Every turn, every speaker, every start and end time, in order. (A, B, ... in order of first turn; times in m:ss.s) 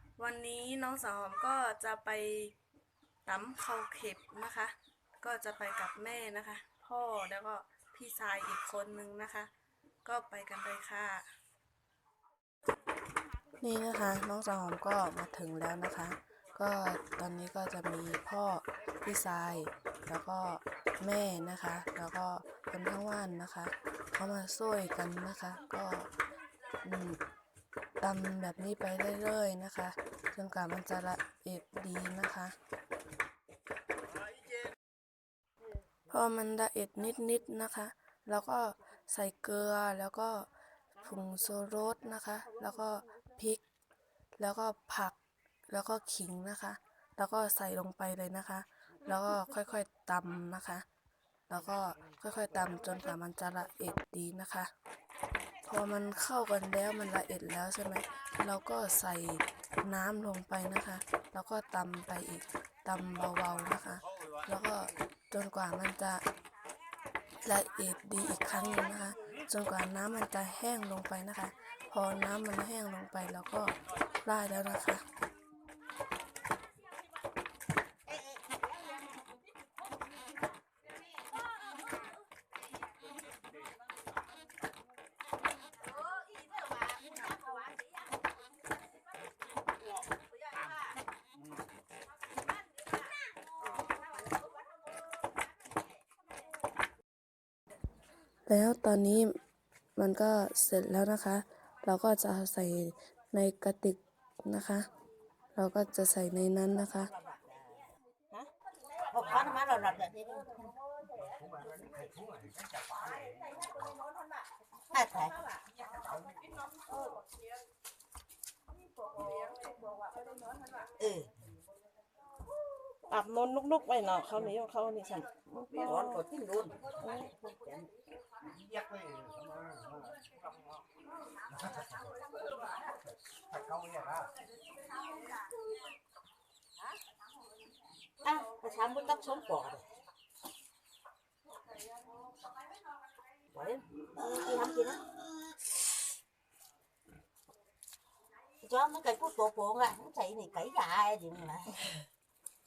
0:00.2-0:02.5 A
0:03.2-0:09.5 A
0:10.0-0:11.3 A
0:13.6-0:26.1 A
0:26.8-0:27.2 A
0:28.0-0:32.5 A
0:36.1-0:40.5 A
0:41.0-0:43.6 A
0:42.5-0:43.2 B
0:44.4-0:45.2 A
0:45.7-0:50.8 A
0:51.5-0:54.7 A
0:55.6-1:06.2 A
1:07.4-1:15.0 A
1:38.5-1:39.3 A
1:40.0-1:44.9 A
1:45.5-1:47.1 A
1:47.0-1:47.9 C
1:49.1-1:50.7 C
1:54.9-1:55.4 C
2:01.0-2:01.3 C
2:03.1-2:06.3 B
2:05.7-2:07.9 C
2:07.0-2:07.3 B
2:18.2-2:19.8 C
2:23.5-2:25.1 C
2:28.6-2:31.8 C